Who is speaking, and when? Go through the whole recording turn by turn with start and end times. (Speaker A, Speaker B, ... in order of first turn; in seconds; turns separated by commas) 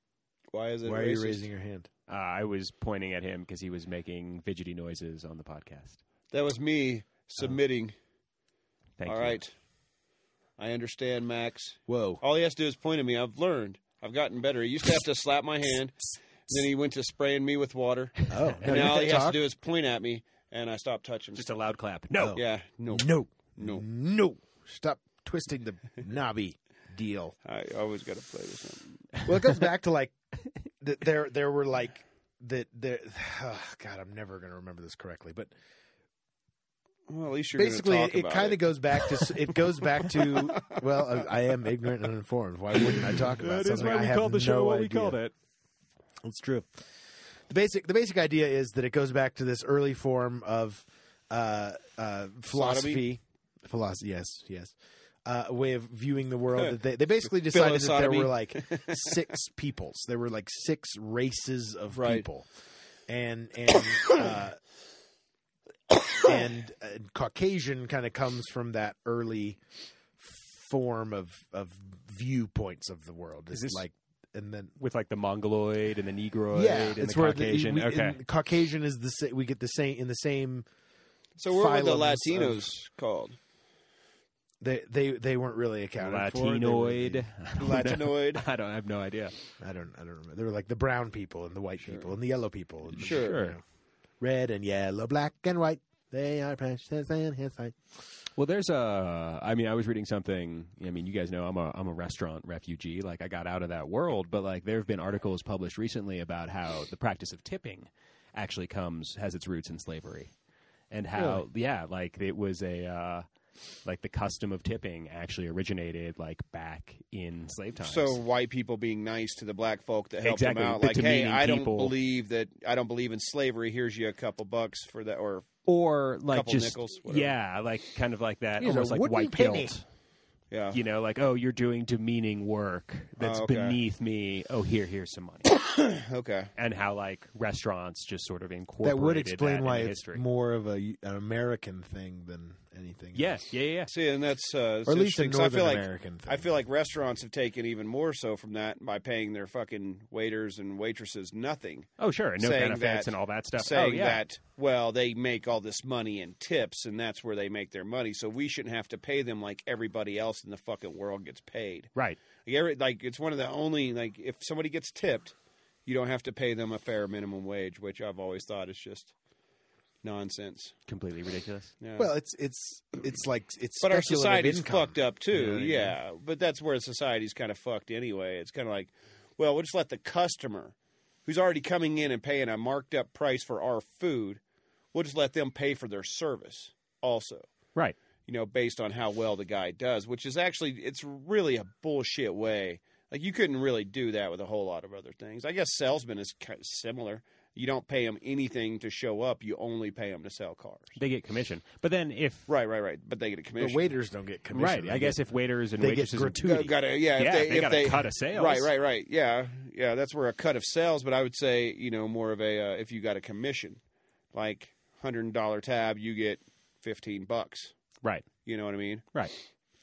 Speaker A: 0.5-1.5, Speaker B: 0.8-1.9, Speaker C: 2.1-6.0, Speaker A: 6.3-7.9, Speaker C: 9.0-9.4, Speaker A: 9.1-9.5, Speaker A: 10.6-21.4, Speaker B: 11.9-12.2, Speaker B: 18.3-19.4, Speaker C: 18.5-18.8, Speaker C: 21.3-22.4, Speaker B: 22.2-27.3, Speaker A: 22.3-23.8, Speaker A: 27.4-29.2, Speaker B: 29.2-30.1, Speaker B: 30.8-35.5, Speaker A: 37.1-39.4, Speaker B: 37.5-45.2, Speaker A: 40.0-41.0, Speaker C: 43.1-45.3, Speaker B: 46.2-46.9, Speaker B: 47.5-62.5, Speaker A: 52.5-53.0, Speaker A: 57.4-59.2, Speaker A: 61.9-62.2, Speaker B: 63.1-64.6, Speaker B: 66.2-69.6, Speaker B: 70.2-74.8, Speaker C: 73.5-73.8, Speaker C: 74.8-78.2, Speaker B: 76.5-80.7, Speaker A: 81.4-83.4, Speaker B: 81.4-82.7, Speaker B: 84.6-87.3, Speaker C: 86.0-89.3, Speaker A: 87.6-88.4, Speaker B: 89.6-93.6, Speaker A: 91.8-92.1, Speaker A: 92.9-93.5, Speaker C: 93.0-93.6, Speaker B: 94.2-97.9, Speaker C: 98.3-110.3, Speaker C: 110.9-113.2, Speaker B: 111.2-111.4, Speaker C: 113.8-118.2, Speaker A: 117.8-125.5, Speaker C: 120.2-121.9, Speaker C: 125.7-129.8, Speaker A: 126.3-127.3, Speaker B: 128.6-129.7, Speaker A: 130.5-130.8, Speaker C: 130.7-135.5, Speaker A: 133.2-133.8, Speaker A: 135.5-136.5, Speaker C: 136.6-140.2, Speaker B: 138.8-143.5, Speaker C: 143.1-143.9, Speaker A: 143.9-161.9, Speaker B: 144.8-146.5, Speaker C: 152.0-154.2, Speaker A: 162.4-165.3, Speaker A: 165.8-169.1, Speaker A: 170.0-170.7, Speaker C: 170.9-171.7, Speaker A: 171.8-172.1, Speaker B: 172.0-175.0, Speaker A: 173.8-184.4, Speaker C: 175.3-175.8, Speaker B: 175.5-175.8, Speaker A: 184.9-187.4, Speaker A: 188.3-201.0, Speaker C: 200.9-202.5, Speaker A: 202.5-203.9, Speaker B: 203.6-205.2, Speaker C: 204.5-208.7, Speaker B: 205.8-206.7, Speaker A: 206.4-213.8, Speaker A: 214.3-217.7, Speaker A: 218.4-219.1